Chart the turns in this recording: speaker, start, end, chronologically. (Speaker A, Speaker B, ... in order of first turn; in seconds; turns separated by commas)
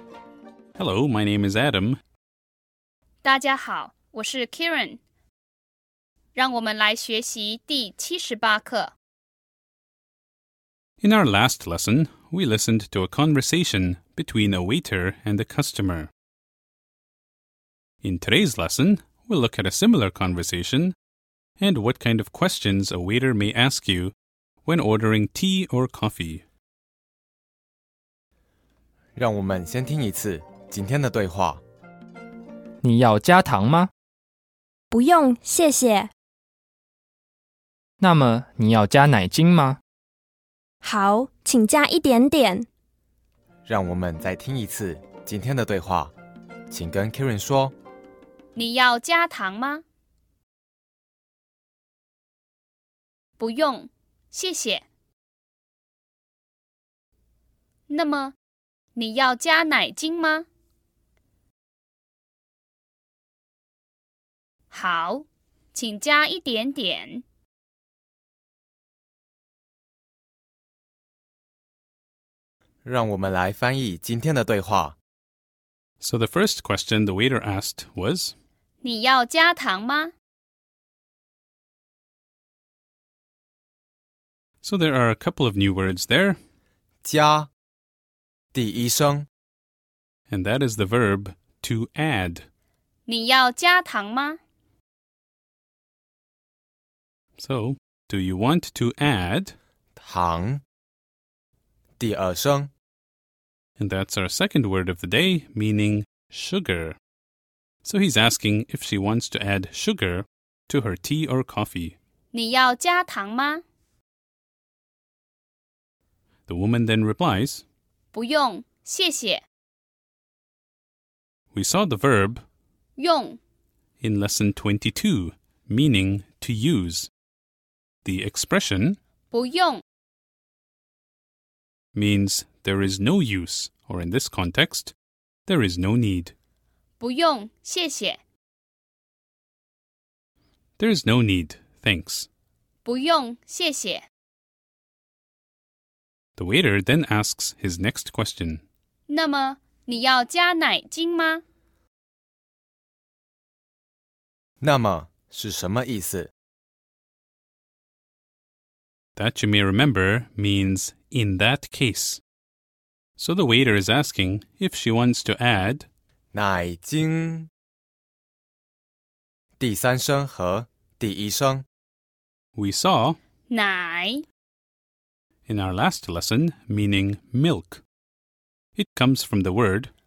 Speaker A: 0.8-2.0, Speaker B: 3.2-5.0, Speaker B: 6.3-8.9, Speaker A: 11.0-16.1, Speaker A: 18.0-20.9, Speaker A: 21.6-24.1, Speaker A: 24.6-26.4, Speaker C: 29.1-31.6, Speaker D: 32.8-33.9, Speaker E: 34.9-36.1, Speaker D: 38.0-39.8, Speaker E: 40.8-42.7, Speaker C: 43.6-46.1, Speaker C: 46.7-47.7, Speaker B: 48.5-49.8, Speaker B: 53.4-54.8, Speaker B: 57.9-58.4, Speaker B: 58.9-60.5, Speaker B: 64.7-67.2, Speaker C: 72.8-75.0, Speaker A: 76.0-78.3, Speaker B: 78.8-80.1, Speaker A: 84.6-86.4, Speaker C: 87.0-87.5, Speaker C: 88.5-89.3, Speaker A: 90.3-92.4, Speaker B: 93.1-94.4, Speaker A: 97.4-99.5, Speaker C: 100.0-100.6, Speaker C: 102.0-102.7, Speaker A: 103.8-107.0, Speaker A: 107.8-111.9, Speaker B: 112.3-113.6, Speaker A: 116.5-117.6, Speaker B: 118.1-119.4, Speaker A: 121.5-122.4, Speaker B: 123.0-123.4, Speaker A: 124.0-127.1, Speaker A: 128.0-129.0, Speaker B: 129.3-129.8, Speaker A: 131.9-134.9, Speaker A: 135.4-136.3, Speaker B: 137.0-138.2, Speaker A: 140.8-142.3, Speaker B: 142.8-144.0, Speaker A: 146.4-148.6, Speaker B: 149.1-151.4, Speaker C: 154.6-156.3, Speaker A: 159.2-162.2, Speaker A: 163.2-165.8, Speaker C: 166.3-167.5, Speaker C: 169.6-171.6, Speaker A: 172.6-173.2, Speaker B: 173.5-174.2, Speaker A: 175.5-177.8, Speaker A: 178.8-179.9